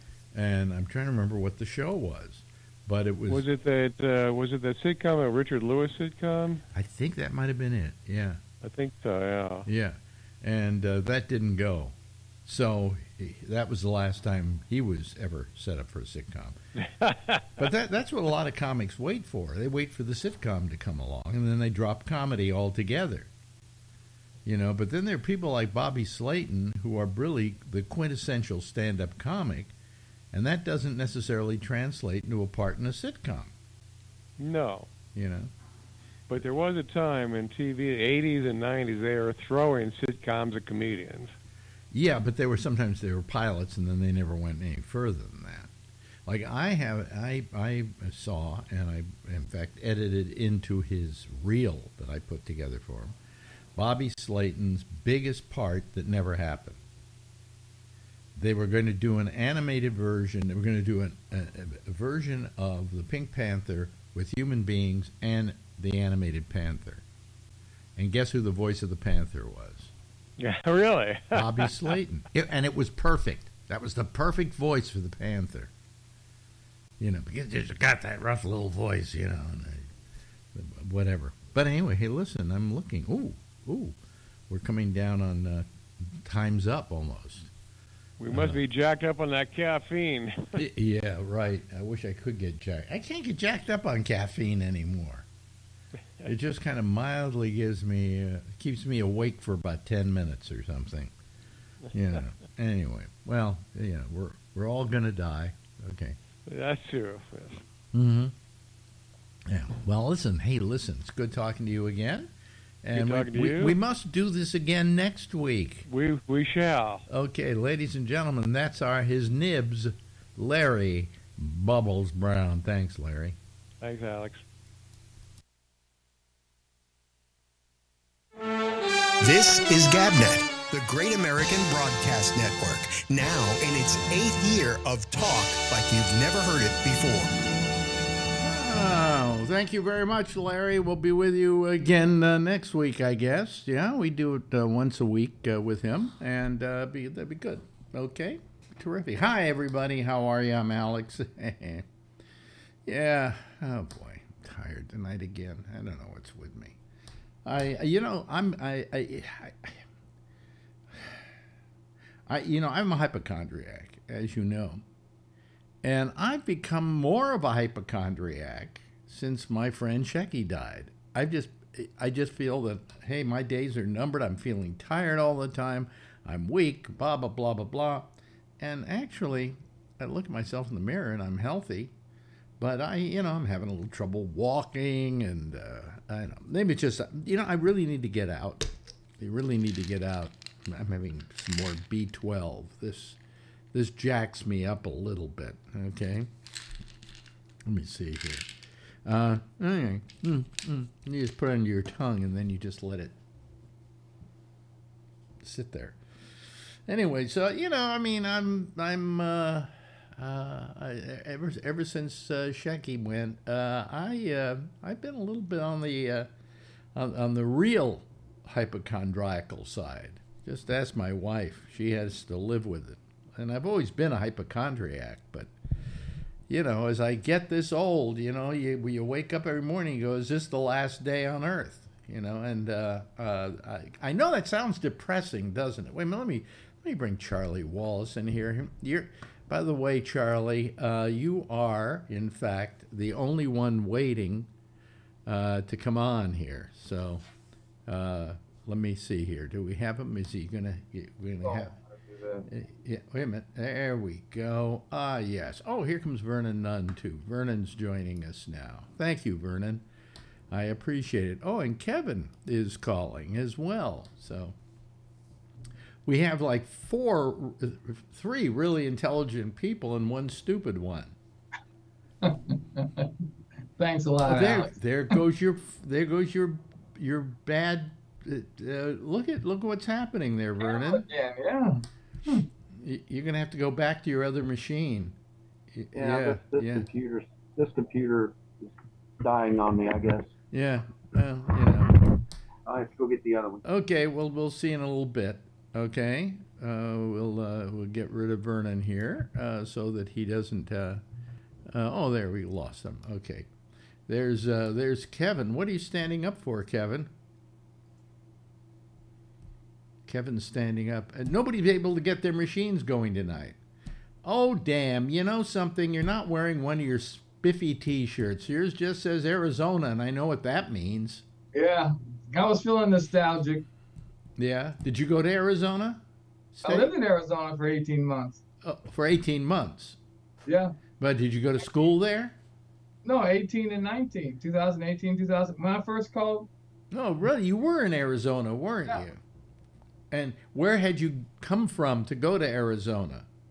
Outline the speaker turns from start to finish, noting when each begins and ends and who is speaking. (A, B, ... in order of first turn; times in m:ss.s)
0:00.3-0:03.5 A
0:03.3-0:06.6 B
0:06.7-0:08.4 A
0:08.6-0:09.7 B
0:09.7-0:16.6 A
0:16.9-0:17.5 B
0:17.6-0:23.3 A
0:24.4-0:29.7 A
0:30.3-0:33.5 A
0:34.4-0:34.9 B
0:35.1-0:35.5 A
0:36.3-0:41.3 B
0:41.9-0:45.7 A
0:46.2-0:53.2 A
0:53.7-0:56.8 A
0:58.3-1:07.0 A
1:08.0-1:09.9 A
1:10.4-1:11.9 B
1:11.3-1:15.7 A
1:17.0-1:19.9 A
1:20.5-1:24.0 A
1:24.5-1:27.5 A
1:28.2-1:30.6 B
1:28.3-1:28.6 A
1:30.6-1:35.3 A
1:36.2-1:41.1 A
1:41.9-1:46.2 A
1:46.5-1:47.6 B
1:47.9-1:48.3 A
1:49.4-1:52.3 A
1:52.8-1:55.8 A
1:52.9-1:53.8 B
1:55.9-1:57.0 B
1:57.1-2:03.4 A
2:03.8-2:04.4 B
2:09.2-2:17.4 C
2:18.4-2:31.8 A
2:32.8-2:36.8 A
2:37.4-2:39.8 A
2:40.9-2:41.2 A
2:42.3-2:44.8 A
2:45.8-3:01.9 A
3:02.6-3:13.2 A
3:13.7-3:16.3 A
3:17.6-3:18.5 A
3:19.0-3:23.1 A
3:25.4-3:26.0 A
3:26.8-3:36.3 A
3:36.9-3:45.5 A
3:46.5-4:04.5 A
4:05.2-4:07.2 A
4:07.9-4:11.7 A
4:11.4-4:12.4 D
4:12.5-4:19.8 A
4:20.5-4:24.6 A
4:26.0-4:31.2 A
4:32.2-4:33.1 D
4:33.8-4:35.2 D
4:34.2-4:41.0 A
4:40.6-4:42.4 D
4:42.7-4:45.2 A
4:45.7-4:46.9 A
4:45.9-4:50.3 E
4:50.5-4:52.0 A
4:52.6-4:53.6 E
4:53.6-5:01.0 A
5:01.7-5:03.5 A
5:04.1-5:07.1 A
5:10.0-5:13.6 A
5:14.2-5:21.2 A
5:21.5-5:23.6 D
5:24.4-5:26.9 A
5:26.6-5:28.4 D
5:28.6-5:30.0 A
5:30.4-5:30.7 D
5:31.0-5:32.4 A
5:33.0-5:36.5 D
5:36.9-5:39.2 A
5:40.1-5:43.3 A